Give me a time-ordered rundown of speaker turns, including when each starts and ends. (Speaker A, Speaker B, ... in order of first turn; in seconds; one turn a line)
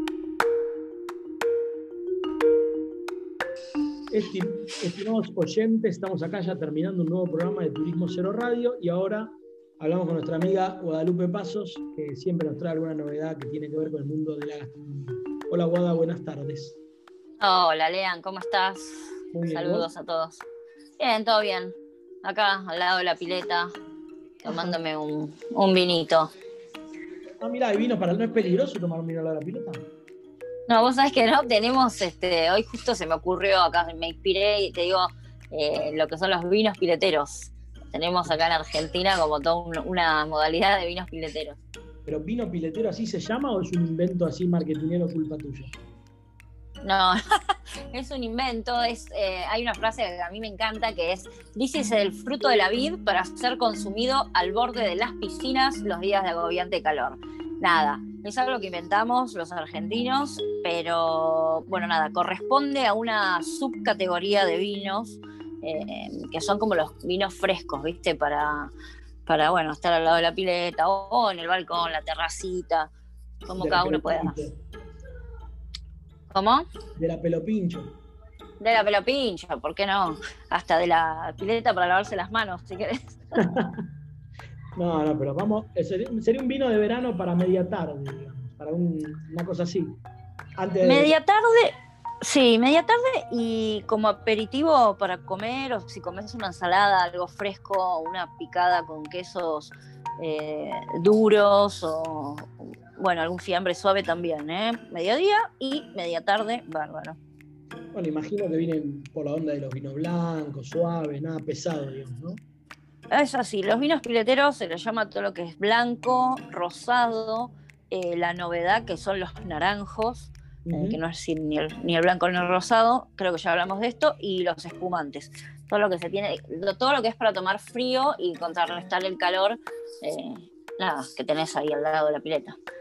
Speaker A: 4.1-16.8
Speaker B: 17.4-20.4
Speaker A: 19.3-19.9
Speaker B: 21.0-23.7
Speaker B: 24.4-26.3
Speaker A: 24.4-24.8
Speaker A: 27.4-29.8
Speaker B: 30.7-41.6
Speaker A: 42.1-45.7
Speaker B: 46.8-68.7
Speaker B: 69.2-72.9
Speaker B: 73.5-74.4
Speaker A: 73.6-74.6
Speaker B: 76.3-76.7
Speaker A: 77.0-77.9
Speaker B: 78.6-83.2
Speaker A: 83.4-83.8
Speaker A: 84.8-90.0
Speaker A: 90.6-91.1
Speaker B: 90.8-107.2
Speaker A: 107.9-112.4
Speaker B: 113.1-132.6
Speaker A: 120.7-121.0